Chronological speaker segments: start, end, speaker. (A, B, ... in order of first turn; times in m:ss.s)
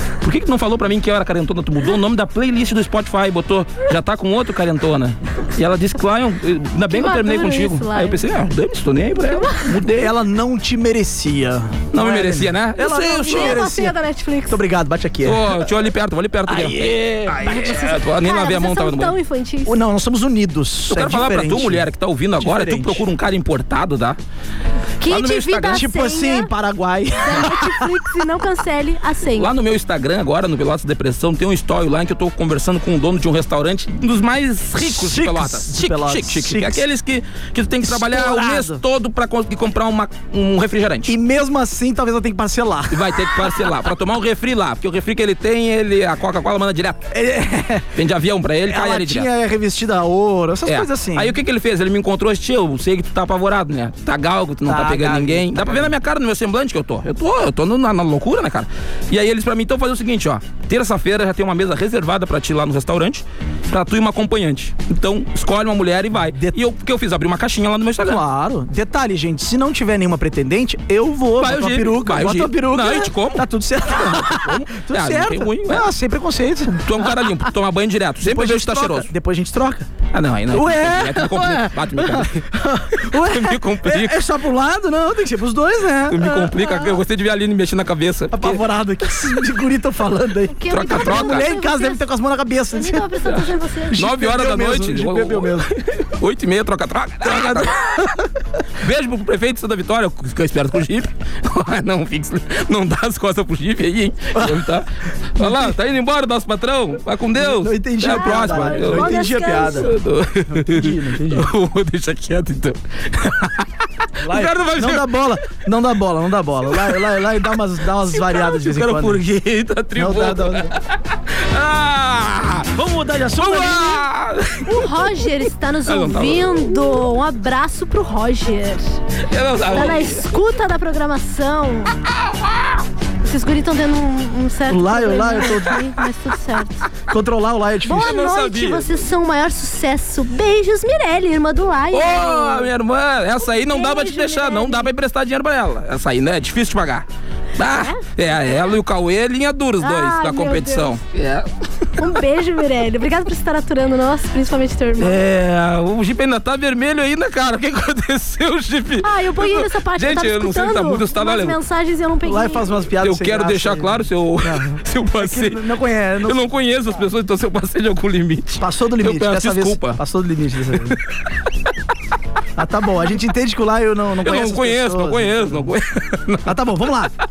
0:00.2-0:10.1 A
0:06.9-0:08.2 B
0:09.3-0:09.7 B
0:09.8-0:14.0 C
0:11.9-0:13.6 A
0:13.1-0:14.6 B
0:14.5-0:15.7 C
0:15.2-0:19.2 A
0:16.5-0:17.8 C
0:17.5-0:19.8 B
0:19.6-0:21.9 C
0:20.9-0:24.2 A
0:22.4-0:23.1 C
0:25.0-0:26.5 B
0:25.0-0:25.9 A
0:25.7-0:28.0 C
0:27.2-0:29.5 B
0:29.4-0:41.1 A
0:34.8-0:36.8 C
0:37.8-0:38.8 C
0:41.1-0:43.7 C
0:42.9-0:47.1 A
0:47.1-0:48.0 C
0:47.9-0:49.3 A
0:48.7-0:51.4 C
0:50.6-1:08.2 A
0:54.6-0:55.9 C
1:06.3-1:06.6 C
1:08.0-1:17.4 C
1:11.4-1:15.9 A
1:16.8-1:19.1 A
1:18.2-1:19.9 C
1:20.1-1:22.4 A
1:20.5-1:27.0 C
1:23.0-1:24.2 A
1:26.1-1:28.6 A
1:28.3-1:33.3 C
1:30.5-1:32.0 B
1:30.7-1:31.5 A
1:32.7-1:34.0 B
1:33.3-1:38.1 A
1:33.9-1:35.7 C
1:37.2-1:38.2 C
1:38.8-1:55.4 A
1:44.4-1:44.7 C
1:45.4-1:45.7 C
1:47.4-1:49.9 C
1:48.0-1:49.9 B
1:50.5-1:51.5 C
1:54.2-1:59.2 C
1:56.7-1:57.0 A
1:58.1-2:02.7 A
1:59.9-2:00.7 C
2:02.7-2:04.0 C
2:03.4-2:05.3 A
2:04.7-2:08.9 B
2:05.9-2:07.0 A
2:09.3-2:10.3 A
2:09.7-2:11.9 B
2:12.2-2:12.8 A
2:13.2-2:16.8 B
2:14.7-2:15.8 C
2:17.1-2:18.2 C
2:17.8-2:22.7 B
2:18.0-2:19.0 A
2:21.9-2:27.1 A
2:23.4-2:24.9 B
2:27.6-2:31.5 A
2:27.6-2:28.6 B
2:29.8-2:30.9 B
2:32.0-2:35.2 B
2:35.0-2:41.6 A
2:39.0-2:42.6 B
2:42.2-2:46.4 C
2:43.0-2:45.6 A
2:46.2-2:50.0 A
2:48.6-2:51.0 C
2:52.6-2:55.7 C
2:54.2-2:56.9 A
2:56.4-2:57.1 C